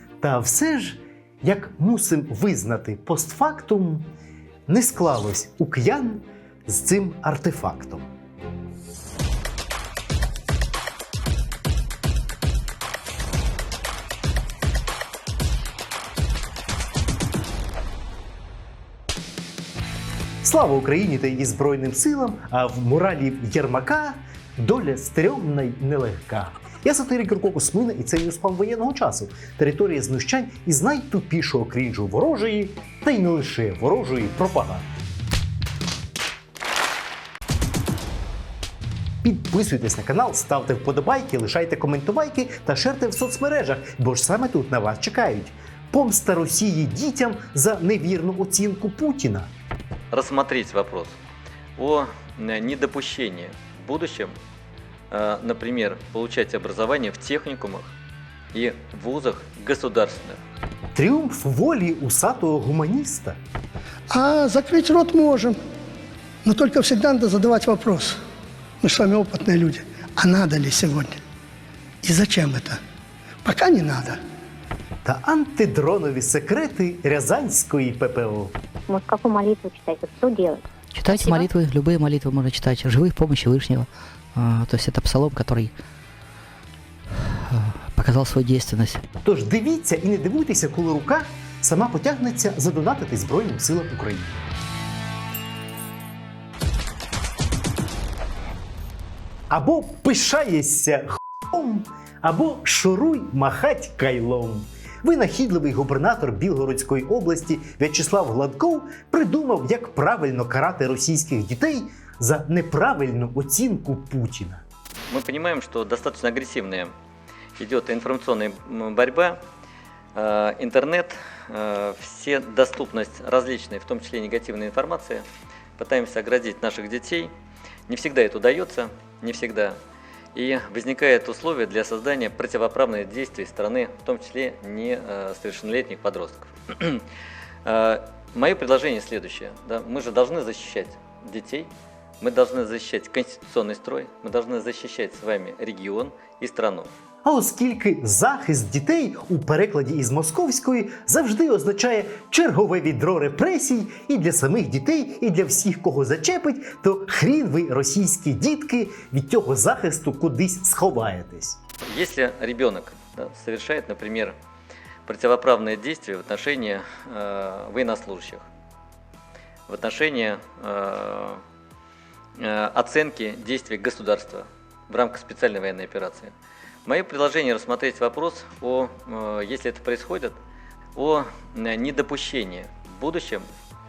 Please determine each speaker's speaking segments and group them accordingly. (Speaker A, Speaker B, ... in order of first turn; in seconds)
Speaker A: 0.2-4.1, 4.7-8.1, 20.4-34.9, 39.2-49.5, 61.0-63.4, 75.0-78.5, 89.2-94.4, 99.5-114.6, 147.2-161.6
Speaker B: 50.1-51.2, 51.8-54.3, 55.1-57.9, 58.5-60.4, 115.1-116.9, 117.6-119.4, 120.2-125.2, 125.8-127.3, 127.9-129.8, 130.3-137.0, 137.7-141.7, 142.2-146.9, 161.9-164.3, 165.1-168.4, 169.7-171.4, 172.4-176.3, 176.9-180.4, 180.9-183.5
Speaker C: 64.1-65.6, 66.4-68.2, 68.8-71.2, 72.0-72.8, 73.4-74.2
Speaker D: 78.9-81.5
Speaker E: 81.4-85.7, 87.5-89.0